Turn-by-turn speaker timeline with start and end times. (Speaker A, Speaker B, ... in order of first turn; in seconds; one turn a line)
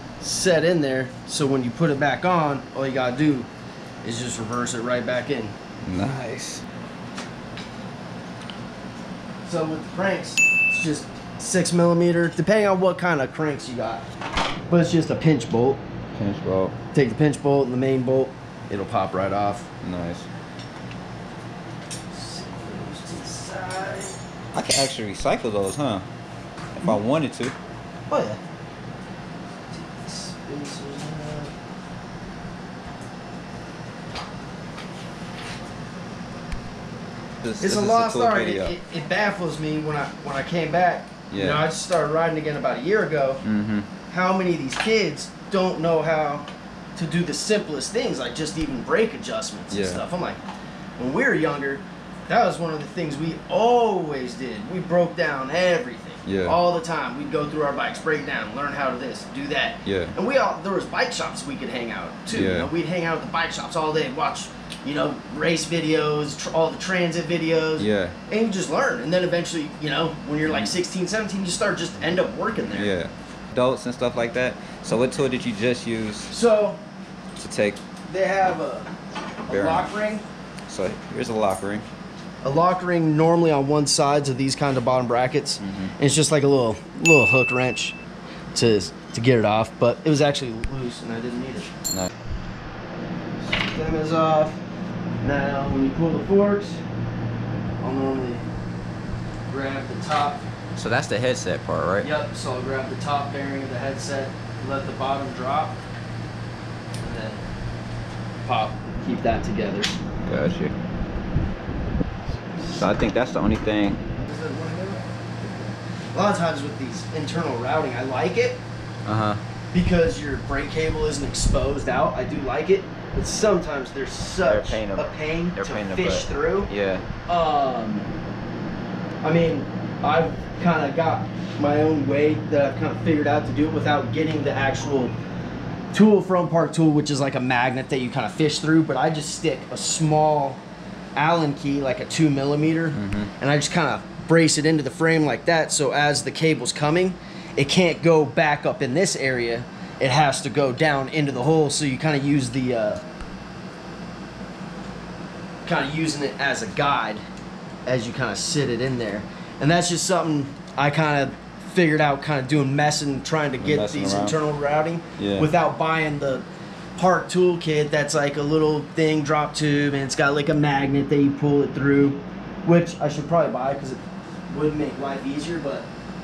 Speaker A: 0.2-3.5
Speaker A: 4.0-5.5
Speaker B: 5.9-6.7
Speaker A: 9.4-14.1
Speaker A: 14.7-15.8
Speaker B: 16.1-16.8
Speaker A: 16.9-19.7
Speaker B: 19.8-20.3
Speaker A: 22.1-24.2
Speaker B: 24.5-26.1
Speaker B: 26.8-27.6
Speaker A: 28.1-28.4
Speaker A: 29.7-31.5
Speaker B: 37.4-38.7
Speaker A: 37.6-43.4
Speaker B: 41.3-41.7
Speaker B: 43.4-43.9
Speaker A: 44.1-50.4
Speaker B: 49.7-50.0
Speaker A: 51.0-72.9
Speaker B: 56.2-56.6
Speaker B: 59.9-60.1
Speaker B: 62.3-62.7
Speaker B: 67.8-68.2
Speaker B: 70.5-70.7
Speaker B: 72.7-76.3
Speaker A: 76.3-76.8
Speaker B: 77.4-77.8
Speaker A: 78.1-78.9
Speaker B: 79.5-79.9
Speaker A: 79.5-80.2
Speaker B: 80.7-81.9
Speaker A: 82.4-88.0
Speaker B: 85.6-85.9
Speaker A: 88.5-91.7
Speaker A: 93.4-94.6
Speaker A: 95.2-96.8
Speaker A: 97.8-98.5
Speaker A: 99.5-100.4
Speaker B: 100.8-102.1
Speaker A: 102.0-105.8
Speaker A: 107.0-107.4
Speaker A: 108.5-109.9
Speaker B: 110.3-110.7
Speaker A: 112.4-113.1
Speaker B: 112.7-114.0
Speaker A: 114.2-118.6
Speaker B: 119.0-119.4
Speaker A: 119.7-126.7
Speaker B: 124.4-127.1
Speaker A: 127.3-128.1
Speaker A: 129.2-135.2
Speaker A: 135.9-140.6
Speaker A: 141.2-153.0
Speaker B: 142.9-143.3
Speaker A: 155.7-157.2
Speaker A: 157.9-175.9
Speaker B: 163.6-164.4
Speaker B: 165.2-165.5